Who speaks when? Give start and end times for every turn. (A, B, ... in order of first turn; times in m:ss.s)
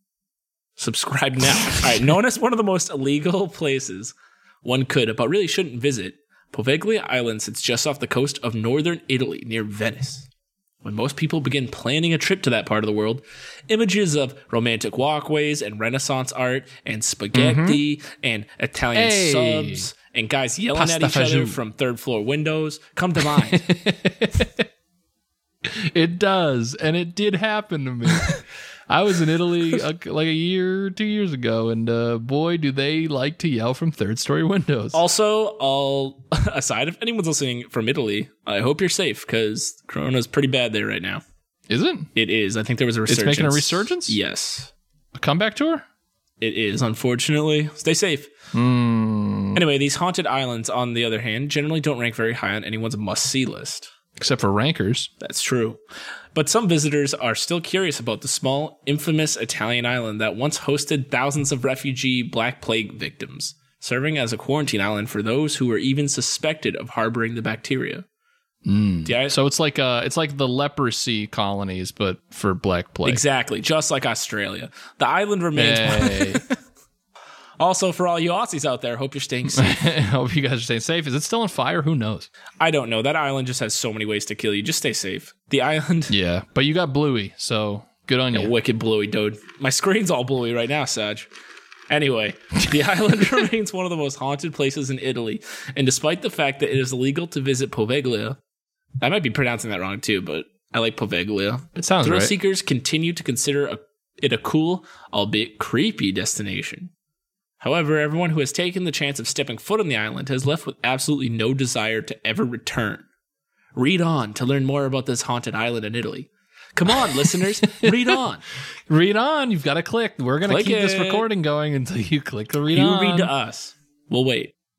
0:00.8-0:10.3 A
0:10.8-0:23.7 A
0:17.3-0:17.8 B
0:18.9-0:19.9 B
0:20.7-0:21.6 B
0:23.2-0:24.7 B
0:25.6-0:35.0 B
0:34.9-0:41.2 A
0:41.7-0:42.1 B
0:42.1-0:44.7 A
0:43.1-0:44.2 B
0:45.1-0:45.8 B
0:46.4-0:48.3 A
0:48.5-0:49.6 B
0:49.5-0:53.9 A
0:54.2-0:55.1 B
0:55.2-0:55.8 A
0:56.3-1:08.0 A
1:08.6-1:13.2 B
1:09.0-1:09.4 A
1:13.0-1:16.5 A
1:15.6-1:16.4 B
1:17.6-1:19.9 A
1:19.5-1:22.3 B
1:22.6-1:26.1 A
1:26.1-1:28.5 B
1:28.3-1:31.3 A
1:31.9-1:38.4 A
1:39.0-1:46.9 A
1:41.8-1:42.3 B
1:47.6-1:53.0 A
1:53.7-1:58.4 A
1:57.2-1:58.2 B
1:58.9-2:03.3 B
2:00.4-2:01.2 A
2:02.7-2:04.5 A